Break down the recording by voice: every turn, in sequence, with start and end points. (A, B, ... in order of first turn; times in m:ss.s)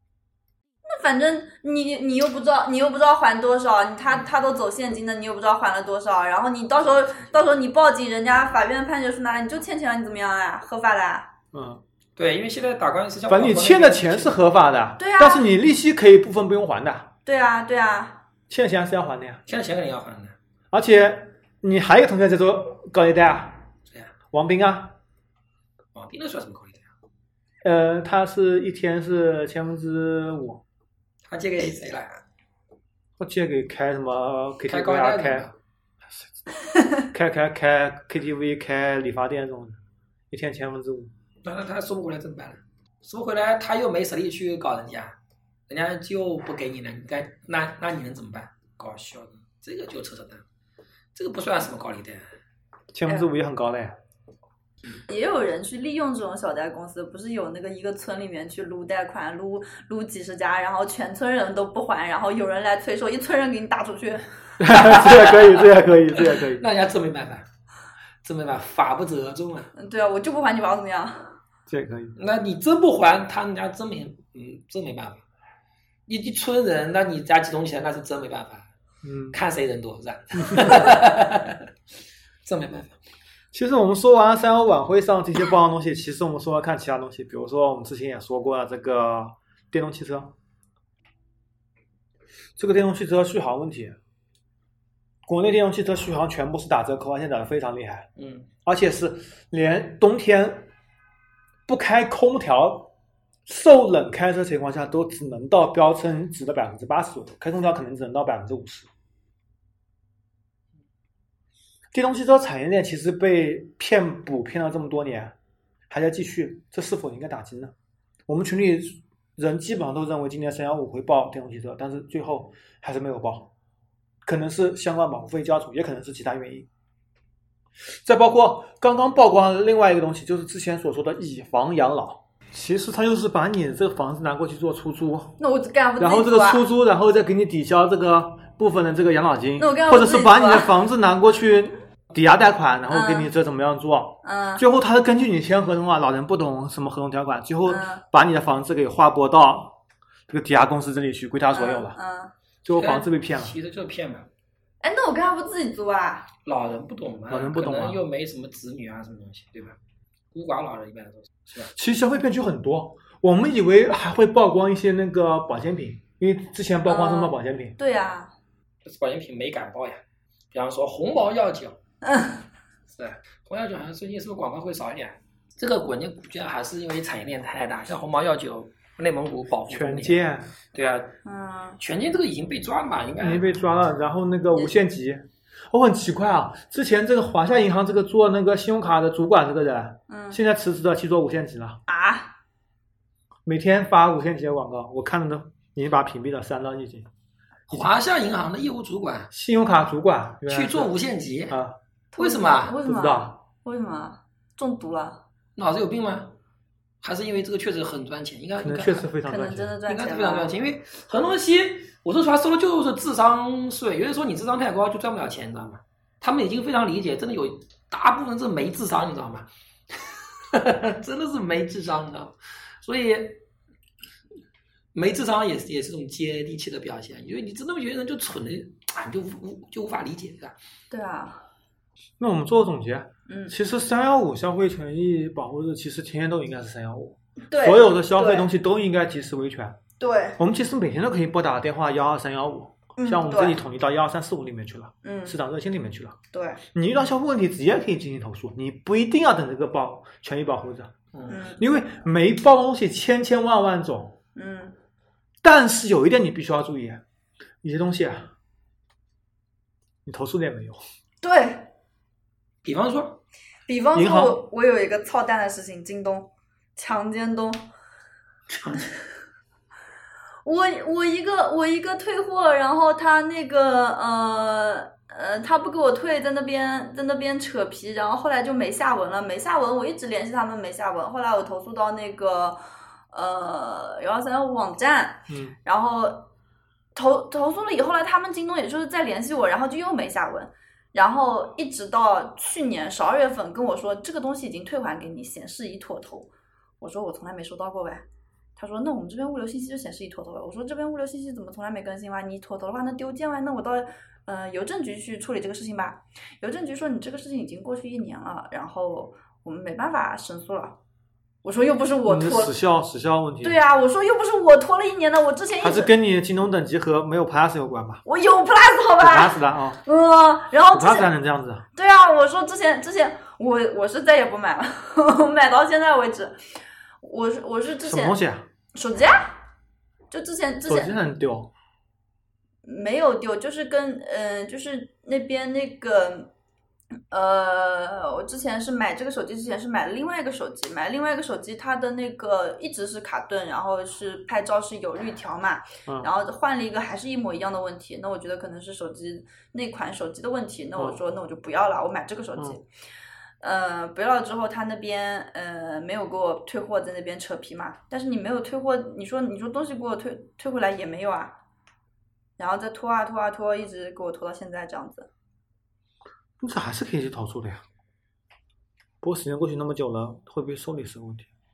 0:00.8-0:11.3 A
0:11.5-0:11.8 B
0:12.2-0:14.4 C
0:13.3-0:17.1 B
0:15.0-0:15.4 A
0:17.2-0:18.2 A
0:18.5-0:19.4 B
0:19.5-0:20.3 C
0:20.7-0:23.6 B
0:24.3-0:25.0 B
0:25.9-0:26.9 C
0:27.6-0:30.6 B
0:31.2-0:32.2 C
0:33.2-0:35.5 B
0:34.7-0:35.5 C
0:37.1-0:39.8 B
0:40.3-0:41.1 B
0:41.4-0:45.2 C
0:45.7-0:50.4 C
0:51.1-0:52.2 C
0:52.9-0:53.9 B
0:55.1-1:04.2 A
1:04.6-1:06.6 B
1:04.8-1:07.4 C
1:08.2-1:09.7 C
1:09.8-1:11.4 A
1:11.7-1:12.2 B
1:12.2-1:15.2 C
1:16.1-1:18.7 C
1:19.0-1:19.4 B
1:19.3-1:21.7 C
1:20.4-1:20.9 B
1:22.4-1:23.0 C
1:23.5-1:30.3 B
1:32.6-1:34.0 B
1:35.3-1:38.1 B
1:38.2-1:38.5 C
1:38.6-1:40.7 B
1:41.7-1:42.9 B
1:43.4-1:48.9 B
1:51.9-1:55.3 B
1:55.9-1:57.7 B
1:58.3-2:03.5 B
2:04.2-2:06.7 B
2:08.0-2:15.4 B
2:15.4-2:16.6 A
2:16.0-2:29.8 B
2:19.6-2:20.7 A
2:22.9-2:23.3 A
2:24.2-2:24.6 A
2:27.6-2:28.0 A
2:30.3-2:32.0 B
2:31.5-2:32.3 A
2:32.6-2:33.5 B
2:32.7-2:34.3 C
2:34.8-2:36.3 A
2:36.4-2:39.8 C
2:37.3-2:38.0 B
2:40.3-2:41.7 C
2:41.7-2:47.8 B
2:46.8-2:48.3 A
2:48.8-2:51.8 C
2:52.0-2:52.4 A
2:52.9-3:01.2 C
2:59.7-3:00.5 B
3:01.2-3:01.8 A
3:01.8-3:03.5 C
3:03.2-3:11.8 B
3:10.1-3:10.4 A
3:11.9-3:12.3 A
3:13.4-3:17.1 B
3:17.7-3:19.3 C
3:19.3-3:20.9 B
3:20.4-3:21.6 C
3:21.5-3:21.8 B
3:22.1-3:25.2 A
3:22.2-3:22.8 C
3:22.8-3:23.4 B
3:25.6-3:26.3 C
3:27.0-3:29.1 C
3:28.6-3:29.7 B
3:29.2-3:30.5 A
3:29.9-3:43.4 C
3:44.9-3:50.5 C
3:50.9-3:51.4 A
3:52.2-3:59.8 B
3:53.3-3:53.5 A
3:57.5-3:58.5 A
4:00.0-4:00.4 A
4:00.4-4:06.2 B
4:03.0-4:03.6 A
4:05.0-4:05.3 A
4:06.3-4:06.6 A
4:06.7-4:10.9 B
4:11.1-4:11.4 C
4:11.3-4:11.6 A
4:11.6-4:14.2 B
4:14.3-4:14.7 A
4:15.4-4:17.0 B
4:17.6-4:18.3 B
4:20.0-4:20.8 B
4:21.2-4:21.7 A
4:22.6-4:23.2 C
4:23.7-4:27.6 A
4:23.9-4:24.4 B
4:28.5-4:28.9 C
4:30.4-4:42.6 A
4:43.1-4:46.3 A
4:45.3-4:45.6 B
4:46.9-4:58.0 A
4:58.6-5:10.8 A
5:11.4-5:12.6 A
5:12.0-5:13.6 B
5:13.4-5:15.9 A
5:15.6-5:18.0 B
5:18.0-5:21.1 A
5:19.0-5:19.8 B
5:20.7-5:21.6 B
5:21.7-5:26.4 A
5:27.0-5:28.2 A
5:27.8-5:28.4 B
5:28.7-5:29.4 A
5:30.1-5:31.0 A
5:30.7-5:31.5 B
5:32.6-5:36.3 A
5:37.1-5:52.6 A
5:53.4-6:01.4 A
6:02.4-6:05.1 A
6:06.4-6:07.6 B
6:09.0-6:11.3 B